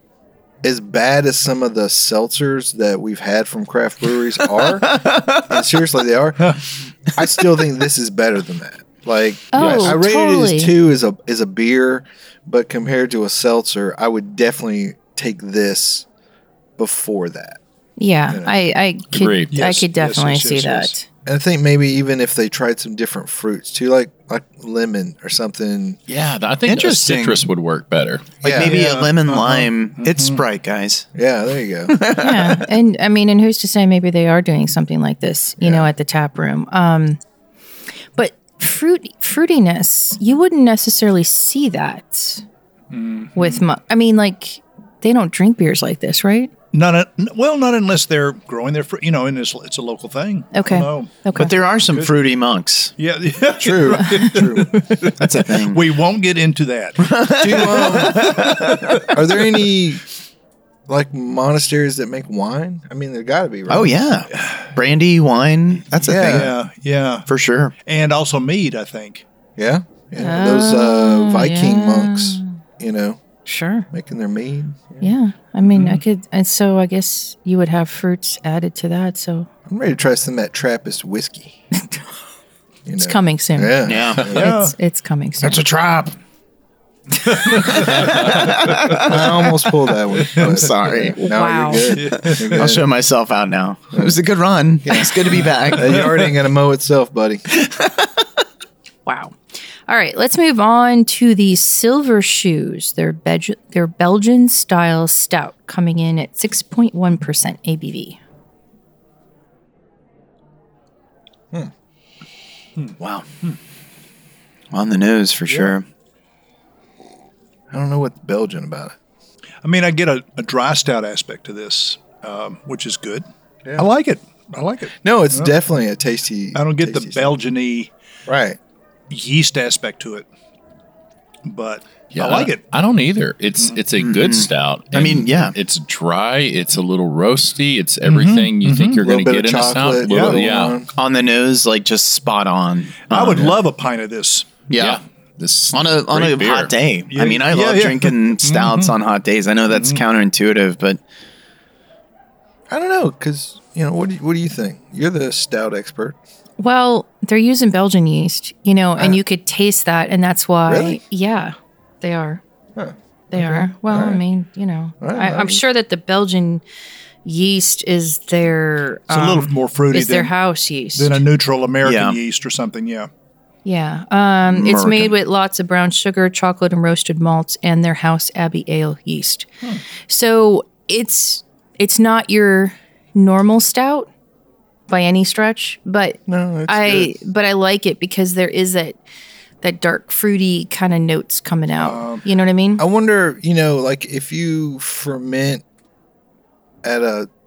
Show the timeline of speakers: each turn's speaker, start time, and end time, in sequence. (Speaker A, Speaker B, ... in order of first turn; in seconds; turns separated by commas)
Speaker A: 0.6-16.1, Speaker B: 4.7-5.5, Speaker C: 9.5-10.7, Speaker D: 9.6-9.9, Speaker A: 16.8-17.6, Speaker C: 18.0-21.1, Speaker A: 18.3-18.6, Speaker D: 19.1-19.5, Speaker E: 19.5-20.9, Speaker A: 21.3-26.0, Speaker D: 26.1-28.4, Speaker B: 26.7-27.4, Speaker A: 28.4-28.8, Speaker B: 28.4-31.1, Speaker E: 28.6-30.4, Speaker A: 31.1-32.0, Speaker B: 31.9-32.6, Speaker C: 32.1-37.2, Speaker A: 35.6-35.9, Speaker C: 38.2-42.4, Speaker E: 42.9-43.6, Speaker C: 43.4-46.5, Speaker E: 46.7-51.2, Speaker C: 50.5-51.5, Speaker B: 51.3-52.9, Speaker E: 53.0-58.7, Speaker A: 53.6-54.8, Speaker C: 54.1-54.4, Speaker B: 55.2-55.9, Speaker B: 57.0-59.1, Speaker A: 57.4-58.5, Speaker A: 59.0-60.0, Speaker A: 60.9-64.0, Speaker B: 63.7-66.5, Speaker E: 64.4-64.7, Speaker A: 66.0-66.5, Speaker E: 66.2-67.3, Speaker B: 67.3-67.7, Speaker E: 67.8-69.2, Speaker A: 69.6-73.2, Speaker C: 70.2-72.5, Speaker C: 73.5-73.9, Speaker A: 73.9-75.1, Speaker C: 75.0-79.5, Speaker E: 75.7-76.0, Speaker A: 79.7-81.6, Speaker A: 82.9-84.5, Speaker C: 83.0-85.6, Speaker B: 83.9-84.3, Speaker E: 84.3-84.7, Speaker B: 85.4-86.2, Speaker B: 87.3-89.5, Speaker E: 87.3-88.8, Speaker A: 89.0-92.9, Speaker E: 90.2-90.7, Speaker B: 90.3-91.2, Speaker C: 91.2-92.0, Speaker E: 92.0-92.7, Speaker B: 92.2-96.1, Speaker A: 94.8-97.4, Speaker B: 97.5-98.3, Speaker C: 99.1-99.4, Speaker C: 99.9-108.2, Speaker B: 113.0-113.3, Speaker B: 114.7-115.8, Speaker E: 115.5-115.8, Speaker A: 117.7-119.0, Speaker E: 119.6-123.3, Speaker E: 123.8-125.5, Speaker A: 125.0-127.3, Speaker E: 126.5-127.9, Speaker A: 128.3-128.6, Speaker E: 129.1-130.3, Speaker E: 131.4-132.6, Speaker D: 132.1-140.8, Speaker B: 134.0-135.6, Speaker E: 138.1-139.0, Speaker A: 139.0-140.9, Speaker E: 140.1-140.4, Speaker B: 140.9-143.6, Speaker E: 143.1-144.6, Speaker B: 144.7-145.0, Speaker D: 144.8-146.8, Speaker B: 145.7-151.0, Speaker E: 147.1-149.0, Speaker E: 149.7-150.0, Speaker A: 152.7-156.2, Speaker C: 156.6-162.4, Speaker A: 160.7-161.0, Speaker A: 162.8-164.2, Speaker C: 163.3-166.6, Speaker A: 165.0-165.6, Speaker C: 167.2-171.2, Speaker E: 169.1-170.3, Speaker E: 171.0-173.1, Speaker B: 171.8-172.2, Speaker C: 173.7-179.5, Speaker B: 174.5-175.2, Speaker C: 180.1-184.1, Speaker C: 184.9-189.0, Speaker A: 186.3-187.1, Speaker C: 189.6-192.8, Speaker E: 191.8-192.2, Speaker A: 192.8-195.6, Speaker A: 196.8-197.3